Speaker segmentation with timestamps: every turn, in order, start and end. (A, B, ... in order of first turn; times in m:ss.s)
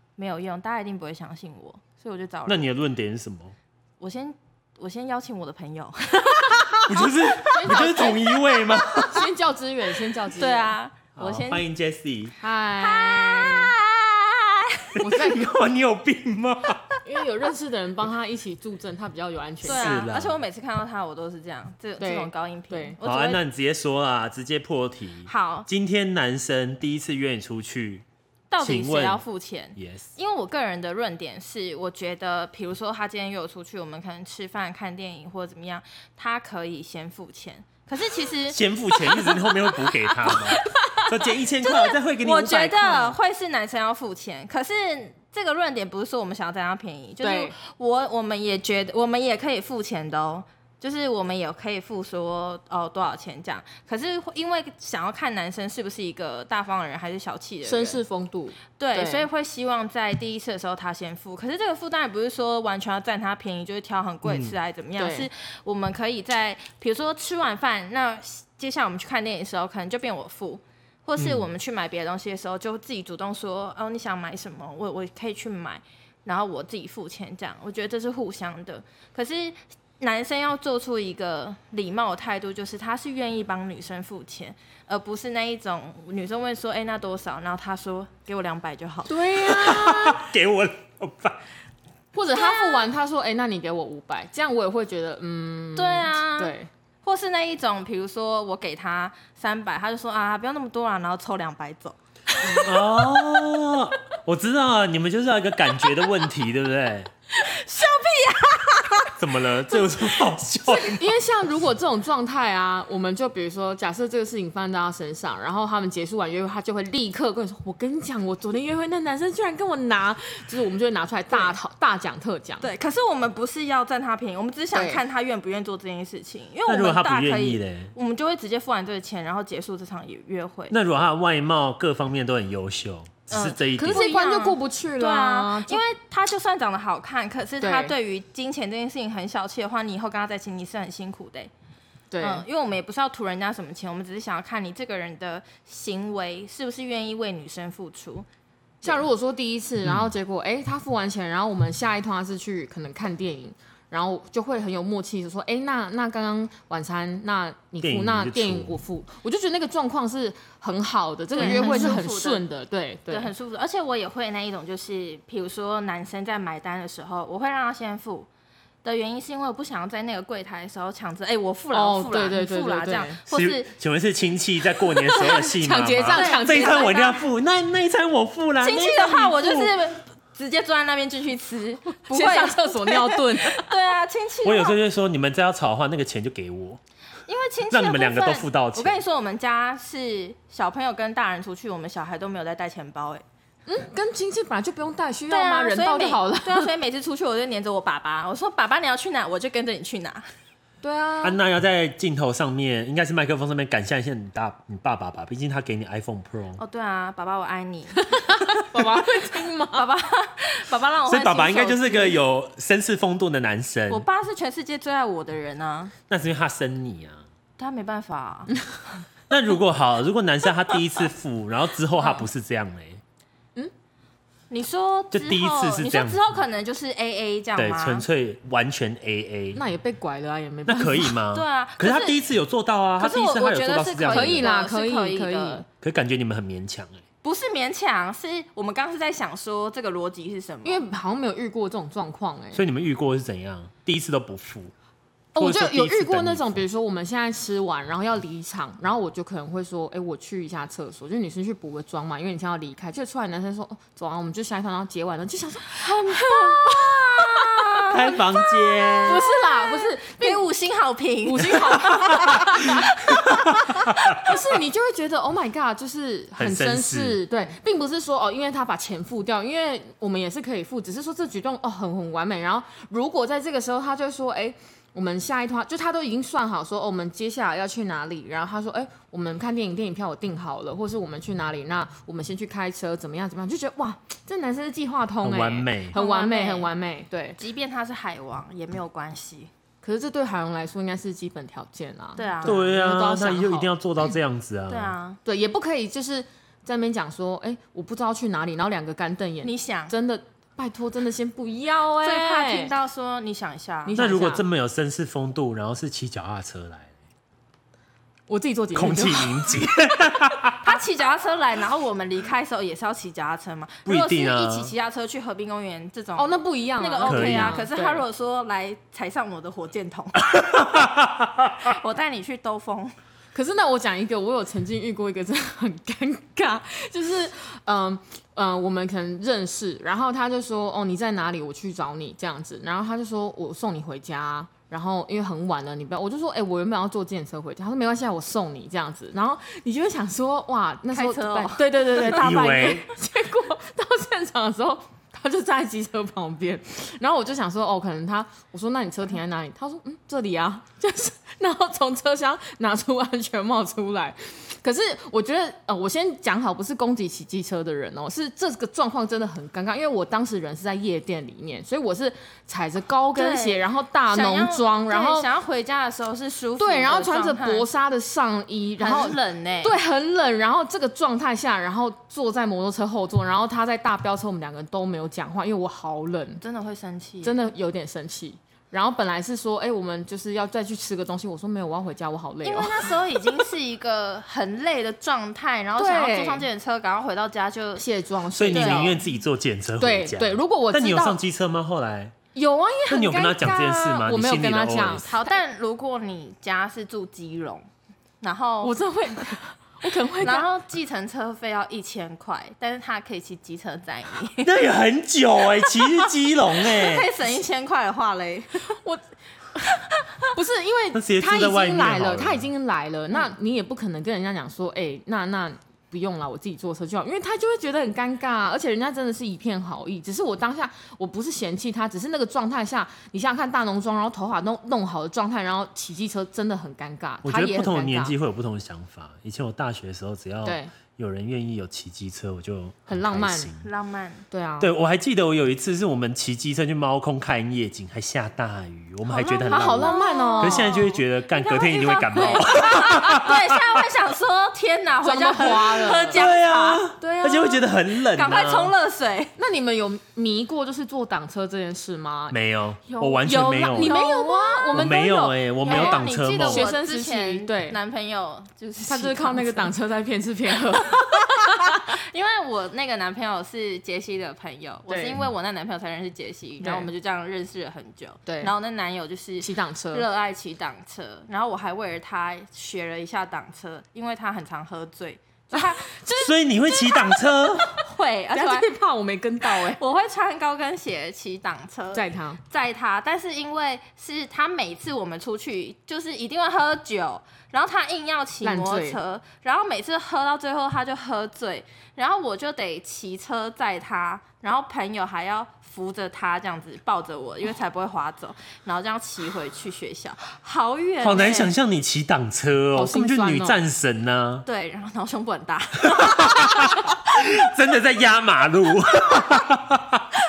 0:00.2-0:02.6 A
0:02.5-0:03.5 B
0:04.0-0:09.0 A
0:06.9-0:09.2 B
0:07.4-0:08.2 C
0:08.8-0:10.8 C
0:10.4-0:11.6 A
0:11.2-0:12.3 B
0:12.4-0:13.7 C
0:12.8-0:15.1 A
0:15.0-0:15.4 C
0:15.0-0:16.8 B
0:17.0-0:20.1 C
0:19.6-0:20.4 B
0:19.6-0:23.4 A
0:22.0-0:23.0 C
0:23.0-0:28.0 B
0:25.3-0:25.7 A
0:28.5-0:38.6 A
0:28.6-0:29.2 B
0:29.8-0:30.1 B
0:38.5-0:43.2 B
0:40.2-0:40.5 A
0:40.3-0:41.0 C
0:41.6-0:58.0 A
0:47.2-0:47.6 C
0:57.6-0:59.3 C
0:58.8-1:29.1 A
1:04.2-1:04.5 B
1:05.0-1:05.3 C
1:11.2-1:11.4 B
1:29.1-1:30.2 C
1:29.4-1:31.4 B
1:32.1-1:36.7 C
1:32.3-1:32.9 A
1:35.8-1:42.6 A
1:42.4-1:42.7 C
1:42.5-1:47.1 B
1:47.3-1:49.2 A
1:49.2-1:51.1 B
1:50.7-2:02.7 C
2:02.6-2:10.7 A
2:04.7-2:05.0 C
2:06.7-2:07.9 B
2:10.7-2:14.1 B
2:13.3-2:21.5 A
2:13.8-2:15.8 C
2:17.6-2:17.9 C
2:22.1-2:22.4 C
2:22.2-2:28.2 A
2:28.8-2:43.3 C
2:37.8-2:38.8 B
2:41.3-2:42.4 A
2:41.4-2:42.0 B
2:43.1-2:48.3 A
2:48.8-2:53.7 A
2:51.7-2:53.2 C
2:53.3-2:59.7 B
2:55.0-2:57.1 C
2:56.0-2:57.2 A
2:58.6-3:04.8 A
3:01.9-3:03.6 C
3:04.4-3:06.8 B
3:07.3-3:13.2 A
3:07.7-3:09.0 B
3:13.7-3:16.7 C
3:15.3-3:20.2 A
3:20.8-3:21.4 C
3:21.2-3:26.6 B
3:26.6-3:28.2 A
3:28.0-3:29.9 C
3:29.7-3:32.2 A
3:31.1-3:34.0 B
3:33.9-3:35.9 A
3:36.1-3:37.2 B
3:37.6-3:38.7 A
3:39.3-3:43.0 B
3:44.5-3:48.0 A
3:45.1-3:46.3 B
3:47.6-3:49.6 B
3:49.5-3:51.1 C
3:50.7-3:54.5 B
3:51.3-3:52.2 A
3:53.0-3:55.6 A
3:54.1-3:55.6 C
3:55.8-3:57.0 B
3:57.2-4:00.8 A
4:00.6-4:02.6 C
4:02.5-4:04.7 B
4:05.3-4:18.2 C
4:05.4-4:06.6 B
4:15.8-4:23.9 A
4:17.9-4:19.2 B
4:19.0-4:20.4 C
4:21.2-4:22.9 C
4:23.1-4:24.4 B
4:23.6-4:47.4 C
4:26.4-4:27.2 B
4:45.2-4:46.0 B
4:45.9-4:46.7 A
4:47.4-4:49.5 A
4:49.8-4:53.7 C
4:52.2-4:52.6 A
4:52.4-4:54.9 B
4:54.7-4:55.2 A
4:55.2-5:02.7 C
4:59.4-4:59.9 A
5:02.0-5:04.0 A
5:03.9-5:04.4 C
5:03.9-5:06.9 B
5:08.3-5:10.4 C
5:08.8-5:10.6 B
5:10.6-5:20.9 A
5:13.9-5:14.7 B
5:16.2-5:18.0 C
5:17.0-5:17.6 B
5:20.3-5:21.6 B
5:21.6-5:22.9 A
5:23.3-6:05.3 C
5:40.9-5:42.8 A
5:42.0-5:42.8 B
6:03.2-6:07.7 A
6:06.6-6:16.4 C
6:08.8-6:09.8 A
6:16.4-6:17.3 A
6:17.2-6:22.9 C
6:22.4-6:27.8 A
6:25.8-6:26.5 C
6:27.8-6:29.0 C
6:28.4-6:32.2 B
6:28.5-6:29.0 A
6:29.8-6:31.2 C
6:32.4-6:35.4 C
6:32.9-6:35.1 B
6:35.1-6:37.6 A
6:38.2-6:38.7 A
6:38.6-6:40.5 C
6:40.2-6:44.6 A
6:44.4-6:47.1 B
6:46.5-6:48.6 A
6:48.7-6:49.0 C
6:50.3-7:08.2 C
6:50.9-6:52.5 B
7:07.2-7:13.7 B
7:10.4-7:10.7 C
7:12.9-7:13.5 C
7:13.6-7:14.2 A
7:14.3-7:14.7 C
7:14.6-7:23.8 B
7:19.1-7:29.3 A
7:19.5-7:20.8 C
7:22.2-7:23.0 C
7:25.0-7:26.3 C
7:26.0-7:28.7 B
7:29.4-7:32.4 C
7:32.3-7:34.0 B
7:32.9-7:35.0 A
7:33.2-7:37.8 C
7:34.7-7:36.7 B
7:35.6-7:39.7 A
7:38.9-7:41.9 C
7:40.7-7:56.0 A
7:44.9-7:45.2 C
7:46.6-7:46.9 C
7:48.2-7:48.5 C
7:49.4-7:50.1 C
7:55.5-7:57.3 C
7:56.2-7:57.7 B
7:57.7-7:58.7 A
7:58.3-7:59.8 C
7:59.4-8:21.5 A
8:01.9-8:02.4 C
8:08.4-8:09.0 C
8:21.0-8:24.4 B
8:22.7-8:23.6 C
8:24.4-8:27.4 A
8:25.8-8:30.1 B